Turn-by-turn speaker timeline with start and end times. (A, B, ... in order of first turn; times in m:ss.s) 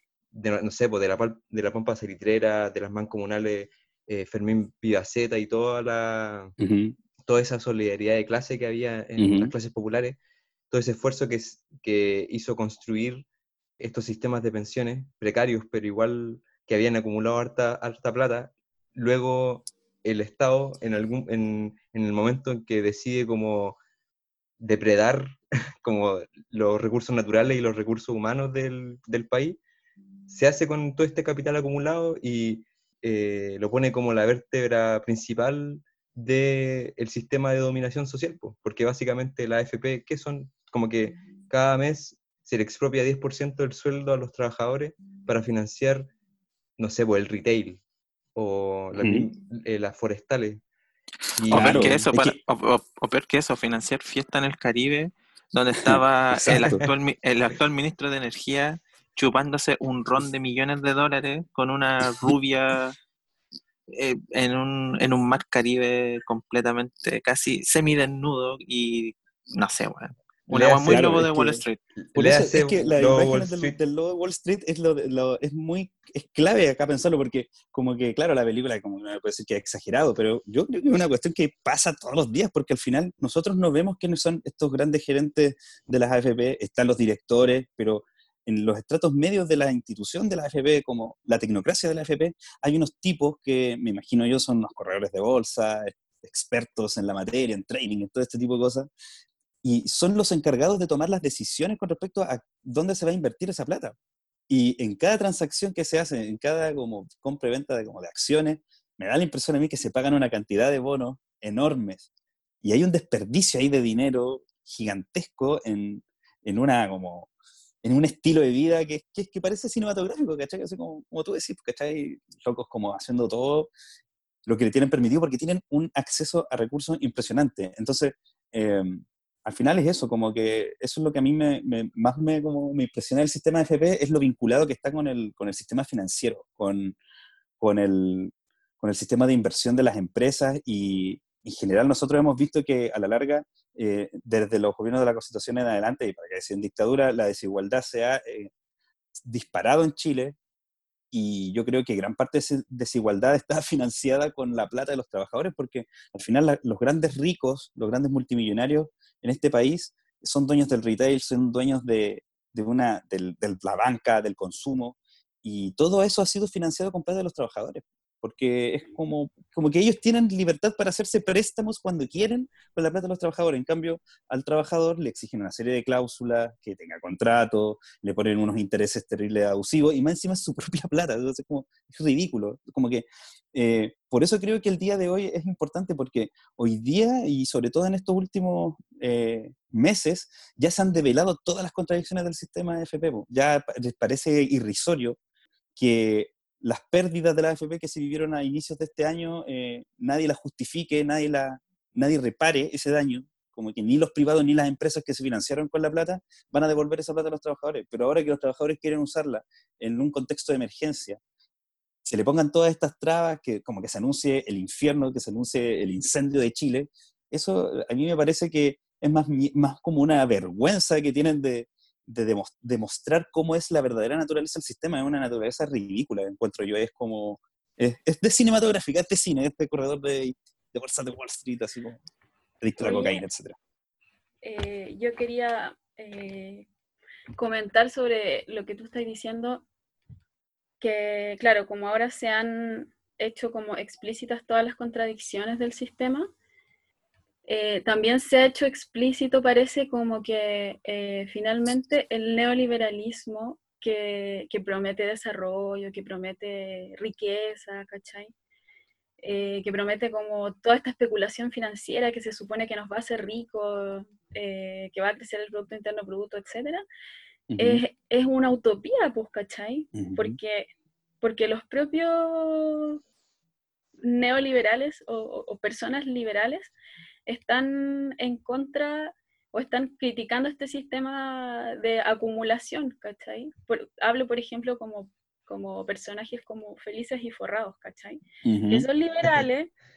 0:00.3-0:06.6 A
0:06.6-0:07.0 B
0:07.2-0:10.2 A
0:09.2-0:09.5 B
0:10.7-0:13.2 A
0:13.8-0:23.8 A
0:24.6-0:29.6 A
0:30.3-0:46.1 A
0:46.8-0:47.8 A
0:48.4-0:50.6 A
0:49.0-0:49.3 B
0:51.4-0:52.0 A
0:51.5-1:03.0 C
0:51.5-0:52.4 B
0:55.9-0:56.8 B
0:56.5-0:56.9 A
1:03.9-1:11.8 C
1:10.5-1:11.2 A
1:10.9-1:11.6 B
1:12.0-1:13.8 A
1:12.2-1:38.9 B
1:39.6-1:44.0 B
1:44.5-1:52.0 B
1:52.6-1:57.3 B
1:57.8-2:03.7 B
2:04.5-2:17.0 B
2:17.6-2:28.5 B
2:29.2-2:30.4 B
2:31.1-3:15.2 B
3:15.8-3:31.2 B
3:32.0-3:52.0 B
3:52.6-3:53.6 B
3:52.8-3:53.2 D
3:54.4-3:56.7 D
3:57.3-3:59.7 D
4:00.8-4:06.3 D
4:07.5-4:18.3 D
4:19.2-4:26.9 D
4:27.5-4:27.8 B
4:27.6-4:30.7 D
4:29.9-4:30.4 B
4:31.2-4:33.0 D
4:34.0-4:36.7 D
4:37.3-4:49.7 D
4:48.4-4:49.4 B